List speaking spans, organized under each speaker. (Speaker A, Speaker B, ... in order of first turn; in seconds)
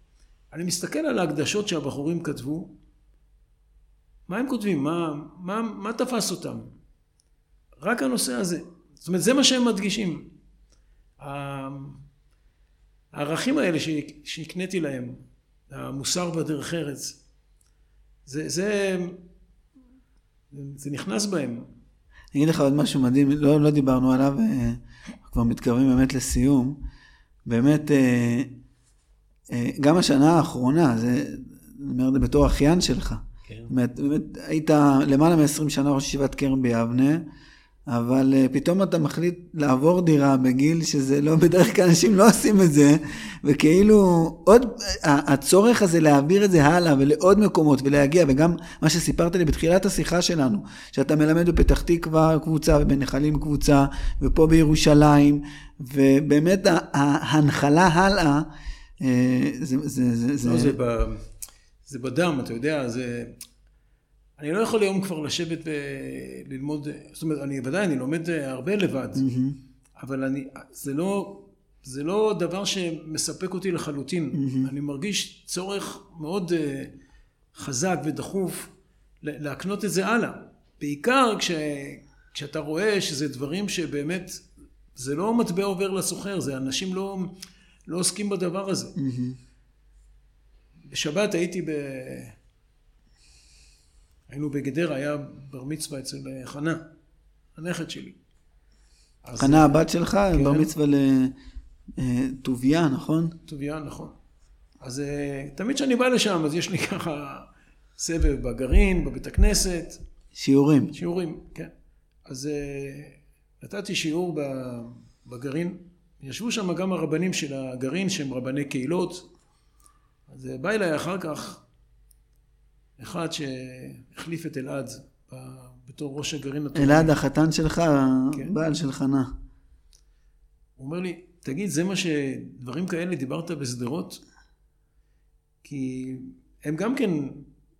Speaker A: 0.5-2.8, 4.3-6.7, 7.8-10.3, 11.2-12.0, 13.1-17.2, 18.2-19.2, 20.5-21.7, 60.4-61.3, 61.9-63.4, 64.4-69.3, 70.0-76.9, 77.5-78.7, 79.2-84.4, 84.9-87.3, 87.9-88.9, 90.9-92.3, 94.3-96.9, 97.5-98.2, 99.2-99.8, 100.3-100.7, 103.5-104.2, 104.8-110.0, 110.9-111.7, 112.2-119.3, 120.3-121.6, 123.0-127.1, 130.8-134.2, 135.6-137.5
Speaker B: 22.3-26.8, 27.4-28.5, 29.5-37.2, 37.9-58.5, 59.0-60.8, 69.2-69.6, 74.3-74.7, 89.0-89.4, 99.4-101.3, 102.0-103.3, 110.3-110.9, 126.7-129.3